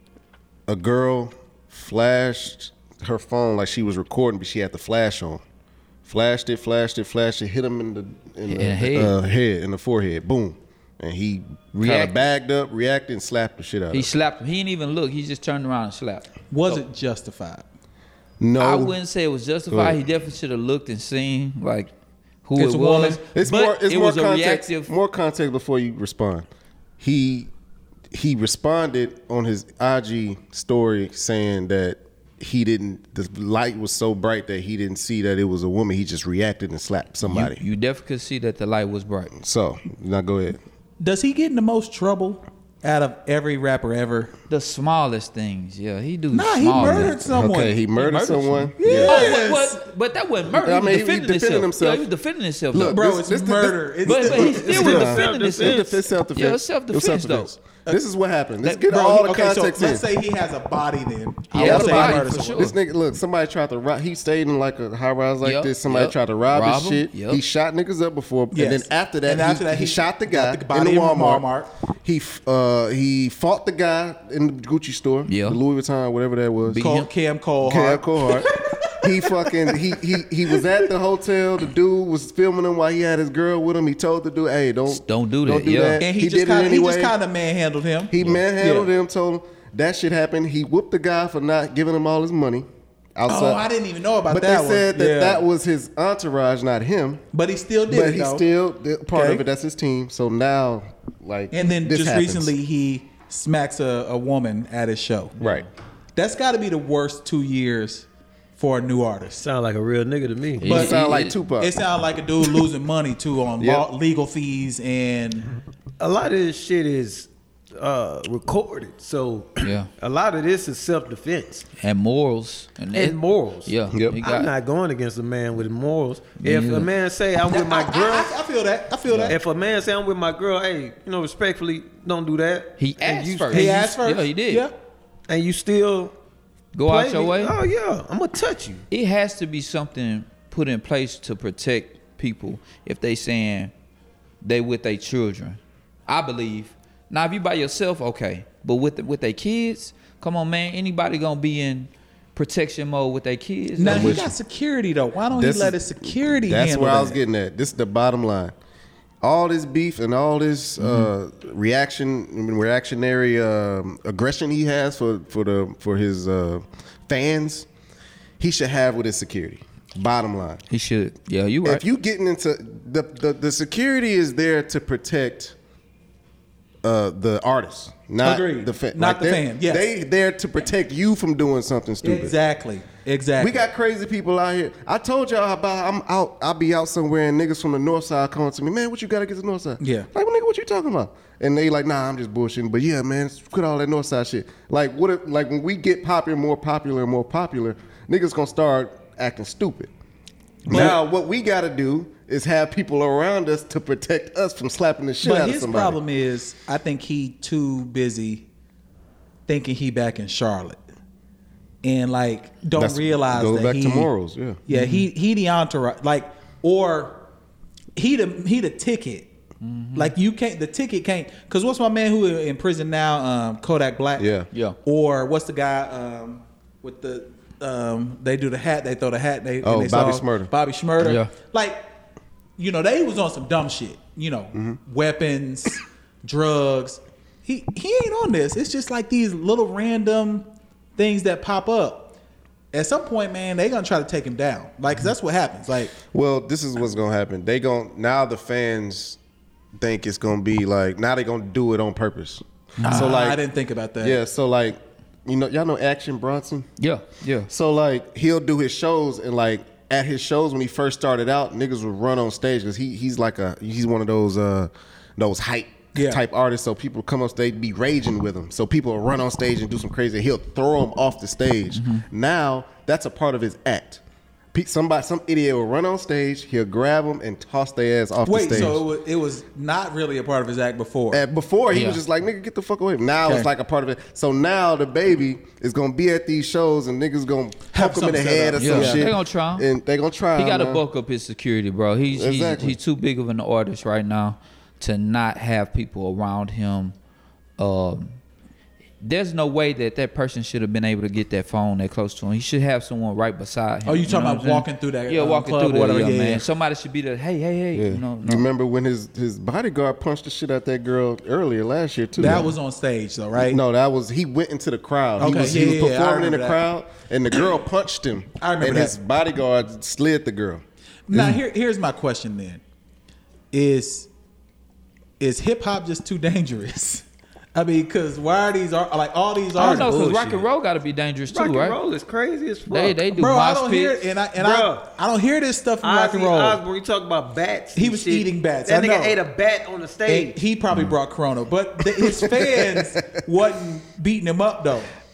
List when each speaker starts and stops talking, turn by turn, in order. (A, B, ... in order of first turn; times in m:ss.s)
0:00.7-0:05.4 A
0:06.0-0:14.1 A
0:08.5-0:09.1 B
0:11.8-0:12.2 B
0:13.9-0:16.8 B
0:16.5-0:17.6 C
0:18.4-0:19.0 A
0:18.6-0:21.9 B
0:19.7-0:20.0 A
0:22.4-0:24.9 B
0:22.6-0:23.2 C
0:23.3-0:26.5 A
0:27.0-0:27.5 A
0:28.1-0:37.6 A
0:37.2-0:39.3 B
0:39.4-0:40.6 A
0:41.0-0:44.3 C
0:44.5-0:47.2 B
0:46.3-0:47.8 C
0:46.7-0:49.4 A
0:47.9-0:53.0 B
0:48.8-0:49.8 C
0:50.5-0:52.1 A
0:52.7-1:00.0 A
0:52.9-0:55.1 C
0:54.0-0:57.5 B
0:54.6-0:55.9 D
0:58.7-1:02.7 C
1:01.5-1:02.7 B
1:01.5-1:11.4 A
1:05.4-1:07.4 B
1:08.5-1:11.7 C
1:12.0-1:16.8 A
1:15.3-1:15.6 B
1:16.6-1:17.1 B
1:16.8-1:19.9 C
1:17.6-1:27.1 A
1:24.9-1:26.0 B
1:26.0-1:28.9 C
1:28.1-1:33.6 A
1:33.3-1:35.4 C
1:34.3-1:37.2 A
1:37.3-1:38.4 C
1:37.9-1:42.5 A
1:39.1-1:39.4 C
1:41.5-1:45.3 C
1:45.4-1:45.6 A
1:45.4-1:45.7 B
1:46.2-1:49.4 C
1:49.4-1:50.7 D
1:50.6-1:51.4 B
1:50.6-1:51.7 A
1:50.6-1:55.4 C
1:53.6-1:53.8 A
1:56.0-2:01.6 D
1:59.6-1:59.9 B
2:01.8-2:04.5 B
2:02.9-2:08.3 D
2:03.9-2:04.2 A
2:06.4-2:06.9 B
2:07.5-2:09.4 C
2:09.1-2:09.4 B
2:09.3-2:13.7 D
2:12.8-2:14.7 B
2:13.5-2:14.7 C
2:15.3-2:16.1 D
2:16.7-2:17.5 B
2:16.8-2:18.8 D
2:18.9-2:23.7 B
2:24.4-2:34.3 B
2:33.8-2:37.2 C
2:33.8-2:34.3 A
2:35.3-2:38.5 A
2:39.2-2:47.7 A
2:40.8-2:41.1 B
2:48.4-2:50.6 A
2:50.7-2:51.8 B
2:51.6-2:55.5 A
2:56.8-3:02.3 A
2:58.2-2:59.8 C
3:02.0-3:03.6 C
3:03.4-3:19.9 A
3:09.8-3:10.1 C
3:20.6-3:26.0 A
3:20.7-3:21.0 C
3:25.2-3:28.4 C
3:29.5-3:30.8 C
3:31.8-3:34.1 C
3:32.8-3:34.6 A
3:34.7-3:37.2 C
3:34.7-3:35.1 B
3:38.0-3:39.3 C
3:39.6-3:40.1 B
3:39.9-3:44.3 C
3:44.2-3:44.5 A
3:44.8-3:51.8 C
3:49.6-3:50.5 A
3:51.0-3:51.3 B
3:52.6-4:02.1 C
4:02.7-4:06.0 C
4:06.0-4:09.2 A
4:09.8-4:13.4 A
4:12.8-4:13.1 B
4:12.8-4:14.2 C
4:14.0-4:16.7 A
4:16.8-4:17.5 B
4:17.5-4:34.0 A
4:25.9-4:26.2 C
4:31.7-4:32.0 B
4:34.5-4:38.8 A
4:38.2-4:41.2 C
4:41.1-4:50.8 A
4:41.7-4:42.0 B
4:47.7-4:49.1 C
4:48.6-4:49.7 B
4:50.4-4:57.0 B
4:52.1-4:52.8 A
4:57.6-4:58.2 B
4:59.0-5:08.4 B
5:03.8-5:06.4 C
5:07.7-5:12.5 A
5:12.2-5:13.6 C
5:12.2-5:12.5 B
5:13.4-5:21.4 A
5:15.2-5:16.6 C
5:18.4-5:19.0 C
5:21.1-5:22.6 C
5:23.5-5:24.1 C
5:25.2-5:30.1 C
5:29.6-5:30.4 D
5:29.6-5:31.8 B
5:31.3-5:33.0 D
5:32.7-5:34.0 B
5:33.1-5:36.6 C
5:34.4-5:34.8 D
5:35.8-5:40.4 D
5:37.8-5:39.2 C
5:40.1-5:44.9 C
5:42.0-5:43.0 A